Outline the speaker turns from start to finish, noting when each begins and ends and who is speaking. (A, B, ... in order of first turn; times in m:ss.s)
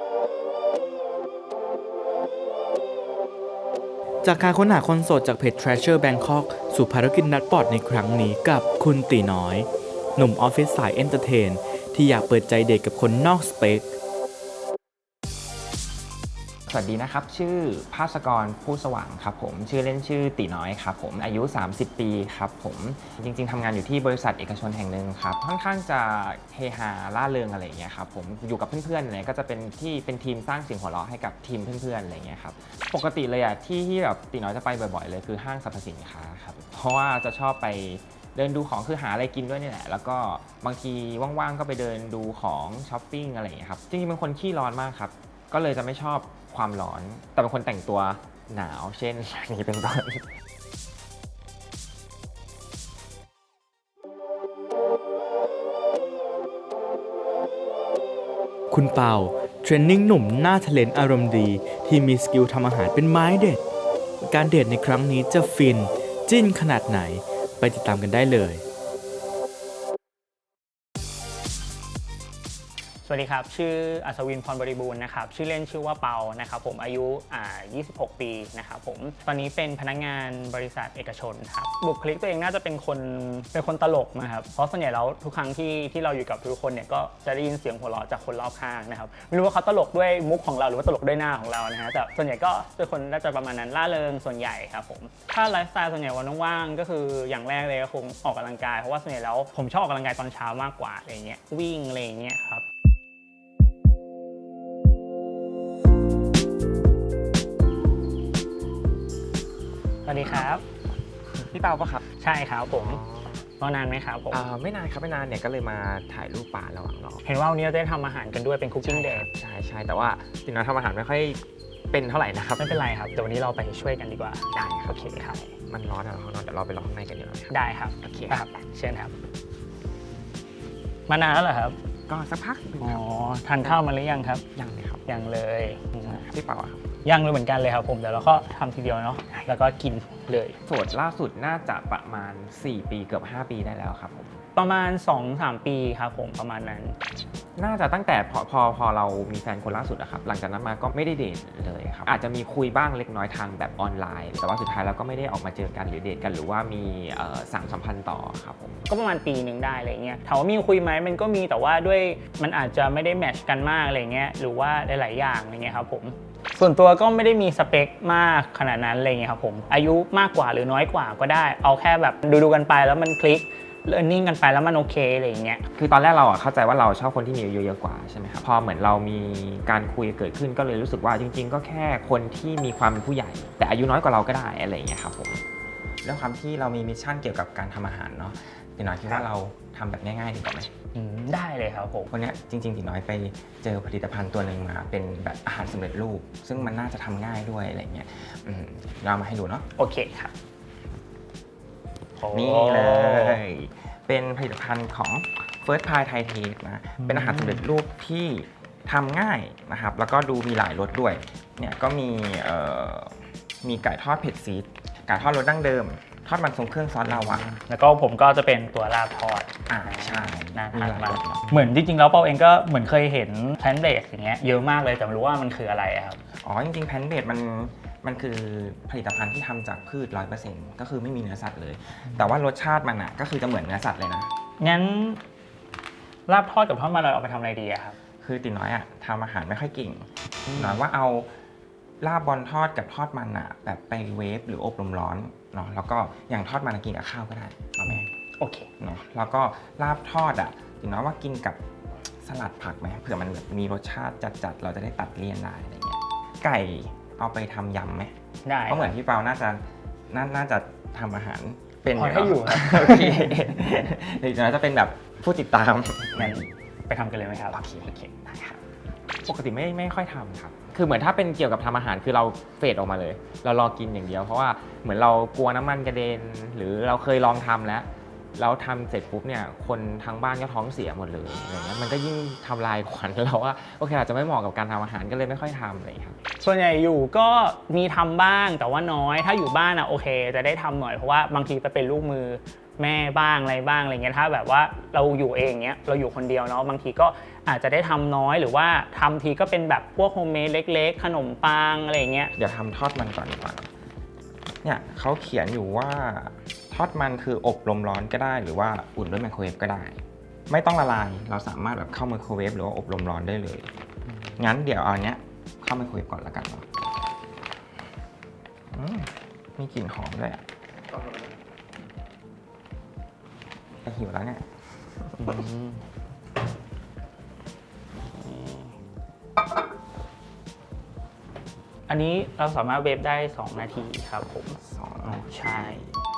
0:04.2-0:13.8 A
0:16.7-0:50.3 B
0:58.7-1:03.6 A
1:04.2-1:08.6 A
1:13.0-1:42.6 C
1:50.0-1:50.6 C
1:51.4-1:52.0 B
1:52.2-1:53.0 C
1:52.7-1:53.4 B
1:53.6-1:54.4 C
1:54.3-1:57.2 B
1:57.2-1:59.3 C
1:58.8-2:02.8 B
2:02.6-2:05.4 C
2:04.5-2:08.6 B
2:07.5-2:09.2 C
2:11.1-2:11.8 C
2:12.1-2:13.0 B
2:12.8-2:14.4 C
2:14.6-2:15.1 B
2:15.1-2:16.2 C
2:16.0-2:16.8 B
2:17.0-2:20.6 C
2:20.7-2:24.4 B
2:24.6-2:27.0 C
2:27.6-2:38.8 B
2:38.9-2:55.7 C
2:55.8-3:05.4 B
3:06.0-3:10.7 B
3:11.0-3:12.1 C
3:12.1-3:19.7 B
3:19.8-3:20.3 C
3:22.2-3:23.4 C
3:22.3-3:37.6 B
3:27.0-3:27.6 C
3:37.1-3:46.2 C
3:39.7-3:41.7 B
3:46.4-3:54.3 B
3:54.6-3:55.2 C
3:56.3-3:58.0 C
3:58.2-4:01.3 B
4:00.5-4:00.8 C
4:02.0-4:08.1 B
4:07.9-4:08.7 C
4:08.8-4:11.6 B
4:12.2-4:18.1 B
4:18.4-4:18.9 C
4:18.7-4:26.5 B
4:22.0-4:23.4 C
4:26.1-4:27.6 C
4:27.5-4:28.6 B
4:29.2-4:46.2 B
4:46.4-5:02.3 C
5:02.4-5:03.7 B
5:04.6-5:13.7 B
5:14.4-5:16.7 B
5:18.7-5:20.4 B
5:23.8-5:25.2 B
5:25.2-5:25.8 C
5:28.1-5:28.7 C
5:31.9-5:35.8 C
5:34.6-5:36.0 B